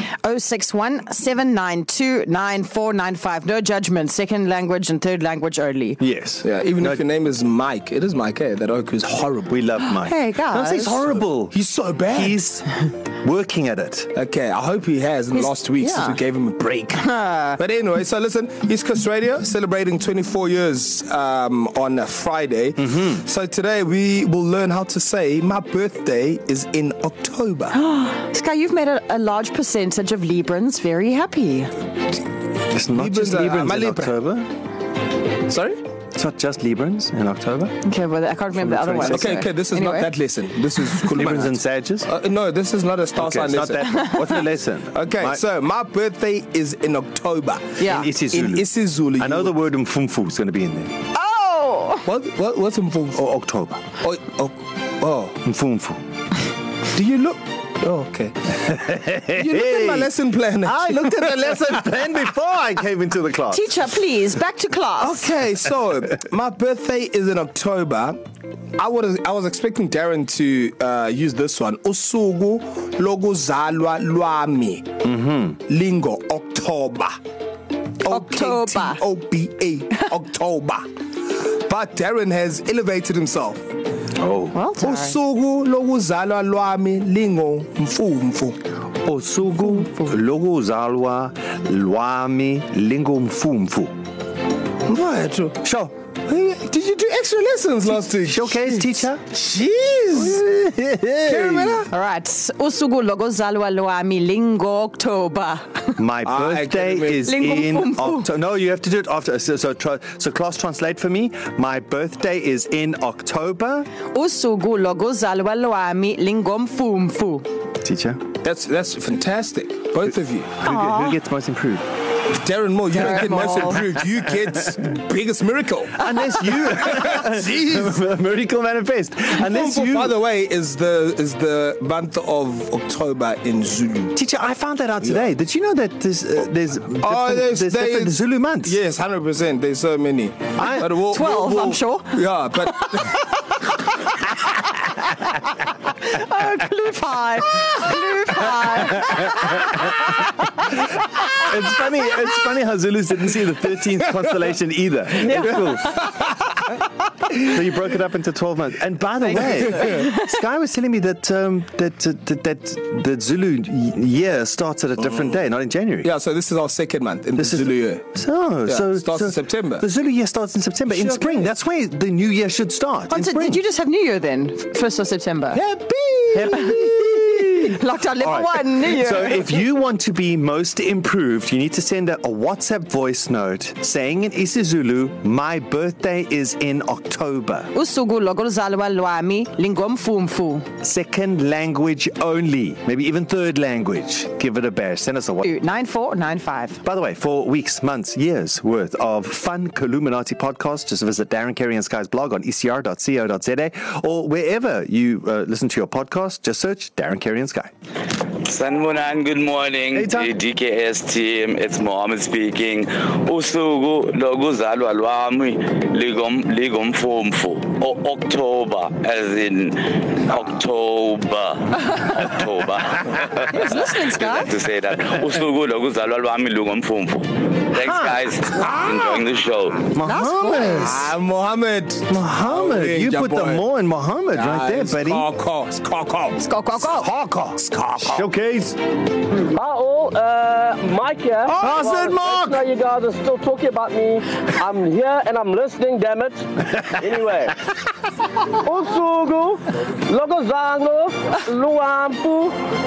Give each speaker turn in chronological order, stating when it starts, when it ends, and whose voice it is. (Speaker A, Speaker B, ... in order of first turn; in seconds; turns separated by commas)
Speaker A: 0.2-6.0, Speaker B: 6.0-7.0, Speaker C: 6.4-9.5, Speaker B: 9.5-11.6, Speaker A: 9.9-11.0, Speaker C: 11.5-12.4, Speaker B: 12.1-14.1, Speaker C: 14.2-17.1, Speaker A: 15.3-16.2, Speaker A: 16.9-17.6, Speaker C: 17.6-27.7, Speaker A: 27.7-31.7, Speaker B: 32.7-34.5, Speaker C: 33.0-34.1, Speaker C: 35.5-35.8, Speaker B: 36.1-37.8, Speaker A: 37.8-40.1, Speaker B: 38.5-39.4, Speaker C: 39.1-43.8, Speaker B: 41.1-42.1, Speaker B: 43.1-45.4, Speaker C: 44.9-47.8, Speaker A: 47.8-48.1, Speaker B: 47.8-51.0, Speaker C: 48.3-49.5, Speaker A: 51.1-52.1, Speaker C: 52.1-53.2, Speaker B: 53.1-53.9, Speaker C: 54.0-55.4, Speaker B: 55.4-56.0, Speaker C: 56.9-58.5, Speaker B: 58.6-60.1, Speaker C: 59.4-61.5, Speaker B: 60.6-63.7, Speaker A: 63.5-65.3, Speaker C: 65.0-68.2, Speaker C: 68.8-74.9, Speaker B: 75.0-75.6, Speaker C: 75.7-77.2, Speaker C: 78.0-83.6, Speaker A: 78.0-79.0, Speaker B: 84.2-84.6, Speaker A: 84.5-85.2, Speaker C: 84.8-88.6, Speaker B: 89.0-93.9, Speaker C: 94.9-95.6, Speaker B: 95.6-95.9, Speaker C: 96.3-100.4, Speaker B: 97.9-99.2, Speaker B: 100.1-101.9, Speaker C: 101.2-101.8, Speaker A: 101.9-106.0, Speaker B: 106.0-113.9, Speaker C: 106.3-107.2, Speaker A: 107.2-108.3, Speaker A: 114.1-117.5, Speaker B: 117.8-118.2, Speaker C: 118.4-120.5, Speaker B: 120.6-121.8, Speaker A: 120.6-121.2, Speaker C: 122.3-126.0, Speaker A: 122.9-123.8, Speaker B: 126.0-130.2, Speaker C: 129.5-134.2, Speaker B: 134.2-138.8, Speaker C: 137.0-143.1, Speaker B: 140.6-141.0, Speaker A: 141.1-142.2, Speaker A: 142.8-143.9, Speaker A: 144.5-150.6, Speaker B: 151.3-156.3, Speaker B: 157.3-166.1, Speaker A: 159.8-160.2, Speaker C: 166.0-168.0, Speaker B: 167.4-173.6, Speaker C: 168.7-169.8, Speaker C: 171.0-171.4, Speaker A: 173.1-175.6, Speaker B: 176.3-187.7, Speaker A: 176.5-179.6, Speaker A: 187.7-190.7, Speaker B: 190.8-195.5, Speaker A: 195.4-196.8, Speaker B: 196.8-207.7, Speaker D: 208.4-229.9, Speaker B: 209.9-210.3, Speaker A: 223.4-224.5, Speaker B: 227.8-228.2, Speaker B: 229.9-231.1, Speaker A: 230.0-231.0, Speaker C: 230.8-233.6, Speaker B: 232.1-235.3, Speaker C: 234.3-236.4, Speaker A: 236.4-237.1, Speaker B: 236.8-238.8, Speaker C: 237.7-238.0, Speaker E: 239.5-247.6, Speaker B: 241.5-242.6, Speaker E: 248.7-252.6